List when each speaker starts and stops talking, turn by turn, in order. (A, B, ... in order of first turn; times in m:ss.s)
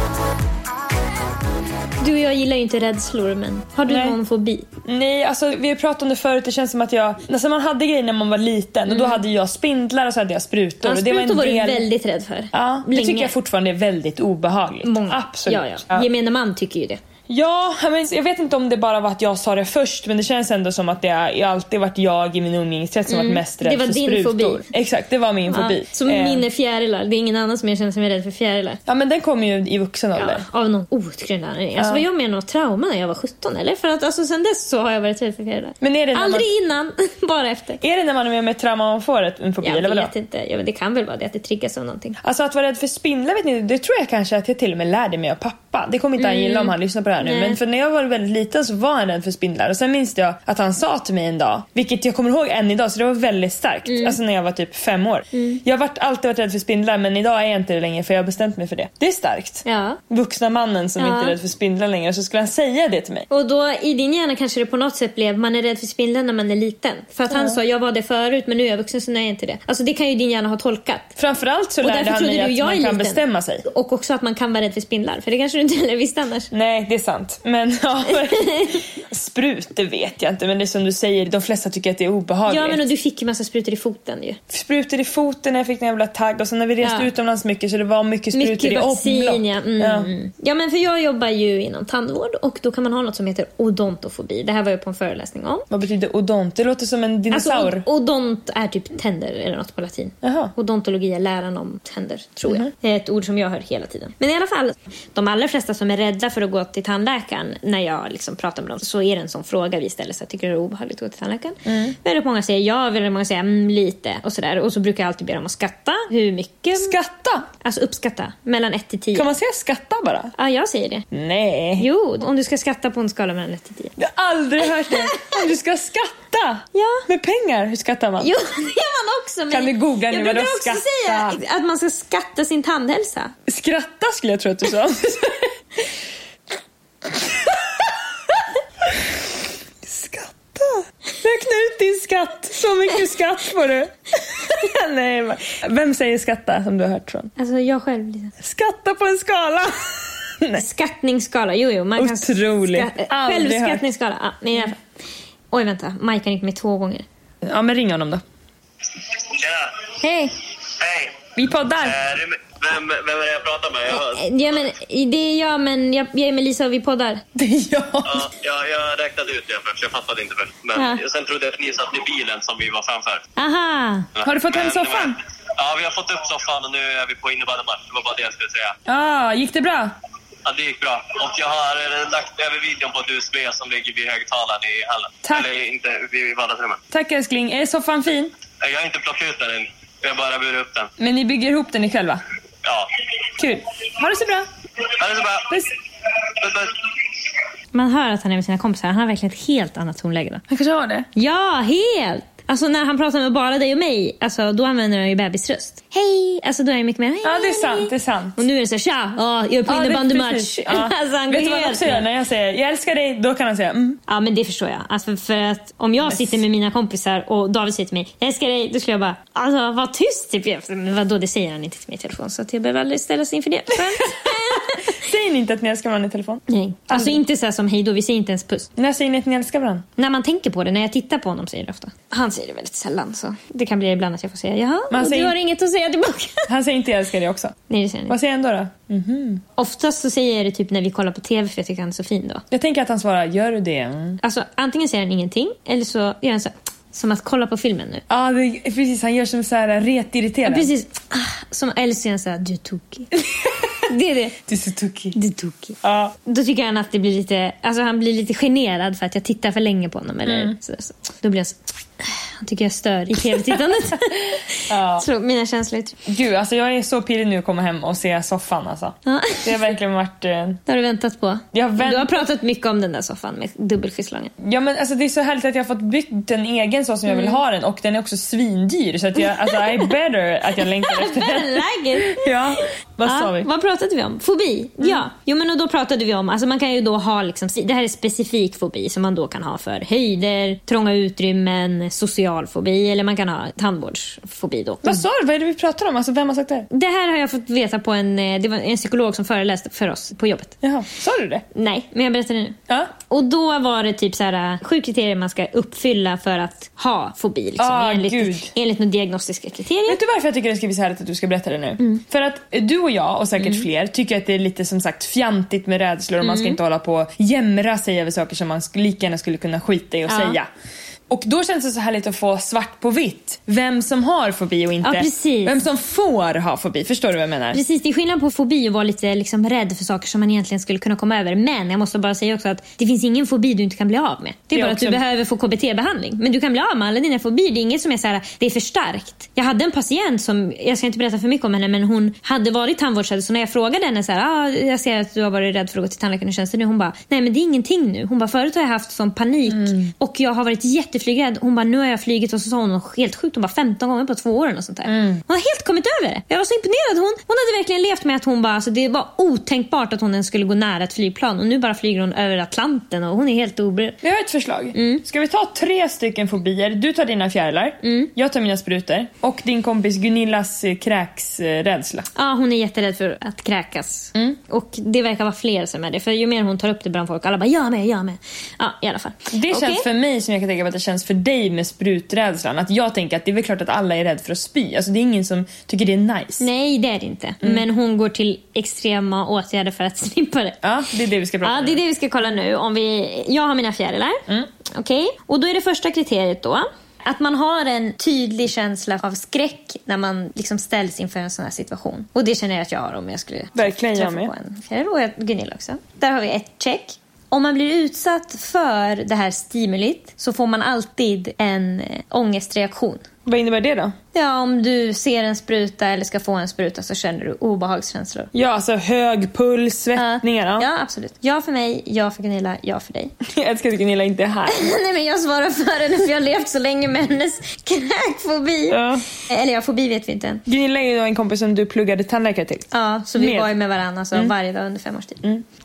0:02.0-0:04.6 A
0:03.8-0:04.2 B
0:04.8-0:11.8 B
0:08.9-0:09.2 A
0:10.8-0:13.3 A
0:12.5-0:16.1 B
0:14.8-0:17.0 A
0:17.3-0:26.4 B
0:23.1-0:24.6 A
0:25.5-0:28.8 A
0:28.9-0:30.4 B
0:30.2-0:37.8 A
0:31.8-0:32.0 B
0:35.8-0:36.4 B
0:37.8-0:40.1 B
0:39.6-0:42.2 A
0:42.2-1:03.3 B
0:46.2-0:47.6 A
0:53.9-0:54.2 A
0:55.3-0:55.6 A
0:59.6-1:00.0 A
1:01.0-1:01.3 A
1:03.3-1:11.1 A
1:07.3-1:07.6 B
1:11.2-1:13.6 B
1:11.8-1:16.5 A
1:16.5-1:22.9 B
1:18.2-1:18.8 A
1:22.5-1:24.4 A
1:24.5-1:30.1 B
1:26.8-1:27.1 A
1:28.3-1:35.7 A
1:35.7-1:37.8 B
1:37.3-1:56.9 A
1:40.2-1:40.5 B
1:51.7-1:52.0 B
1:56.8-1:57.5 B
1:57.6-1:59.3 A
1:59.1-2:00.3 B
2:00.4-2:01.0 A
2:01.1-2:01.9 B
2:01.8-2:03.9 A
2:04.0-2:08.3 B
2:05.0-2:05.4 A
2:06.7-2:07.0 A
2:08.2-2:13.3 A
2:09.5-2:11.4 B
2:13.5-2:15.5 B
2:17.2-2:17.5 B
2:19.8-2:27.3 B
2:27.4-2:28.3 A
2:28.4-2:30.6 B
2:30.5-2:34.8 A
2:32.0-2:33.8 B
2:35.5-2:37.0 A
2:37.4-2:38.2 B
2:39.2-2:39.7 C
2:40.0-2:40.3 A
2:40.8-2:41.2 C
2:41.4-2:42.0 B
2:41.8-2:44.2 C
2:43.9-2:47.2 A
2:47.4-2:48.2 B
2:48.1-2:53.2 C
2:50.7-2:51.0 A
2:53.4-2:54.1 A
2:54.2-2:58.7 C
2:54.2-2:55.2 B
2:58.9-2:59.9 B
3:00.4-3:06.8 C
3:06.9-3:08.3 B
3:08.6-3:10.9 C
3:11.0-3:12.2 B
3:12.6-3:12.9 C
3:13.4-3:14.5 B
3:14.9-3:15.5 C
3:16.3-3:16.8 C
3:17.7-3:20.4 A
3:20.5-3:21.1 B
3:21.2-3:32.0 A
3:27.2-3:28.4 B
3:29.7-3:34.0 B
3:34.1-3:44.9 A
3:36.0-3:36.4 B
3:44.0-3:44.3 B
3:44.9-3:47.2 B
3:46.5-3:48.7 A
3:48.8-3:49.8 B
3:50.0-3:56.5 A
3:54.9-3:55.4 B
3:56.5-3:57.6 B
3:57.7-3:58.2 A
3:58.1-3:59.4 B
3:59.6-4:02.4 A
4:02.5-4:04.2 B
4:04.2-4:08.0 A
4:08.1-4:10.7 B
4:10.4-4:13.1 A
4:13.9-4:14.4 A
4:14.5-4:15.2 B
4:15.1-4:24.4 A
4:15.8-4:16.1 B
4:20.2-4:20.5 B
4:24.7-4:25.0 B
4:24.9-4:26.0 A
4:26.1-4:30.6 B
4:29.0-4:29.7 A
4:30.7-4:34.3 A
4:31.5-4:32.2 B
4:34.4-4:43.5 B
4:37.1-4:37.4 A
4:39.4-4:39.9 A
4:40.6-4:42.3 A
4:43.0-4:55.0 A
4:54.8-4:56.7 B
4:56.7-5:00.5 A
5:00.6-5:01.4 B
5:01.5-5:10.0 A
5:07.6-5:08.5 B
5:09.9-5:20.5 B
5:13.4-5:13.6 A
5:16.2-5:16.6 A
5:20.1-5:20.4 A
5:21.1-5:27.6 B
5:24.8-5:25.6 A
5:27.5-6:04.0 A
5:34.5-5:35.0 B
5:49.5-5:49.9 B
5:54.9-5:55.2 B
6:04.0-6:12.1 B
6:04.7-6:05.0 A
6:07.8-6:08.1 A
6:12.1-6:19.9 A
6:19.3-6:26.4 B
6:26.4-6:30.6 A
6:30.6-6:31.8 B
6:31.4-6:53.0 A
6:43.6-6:44.3 B
6:53.2-6:53.9 B
6:54.1-6:58.3 A
6:58.3-7:00.6 B
7:00.0-7:03.1 A
7:03.3-7:04.7 B
7:04.5-7:10.4 A
7:08.7-7:09.0 B
7:10.5-7:13.5 B
7:12.7-7:15.2 A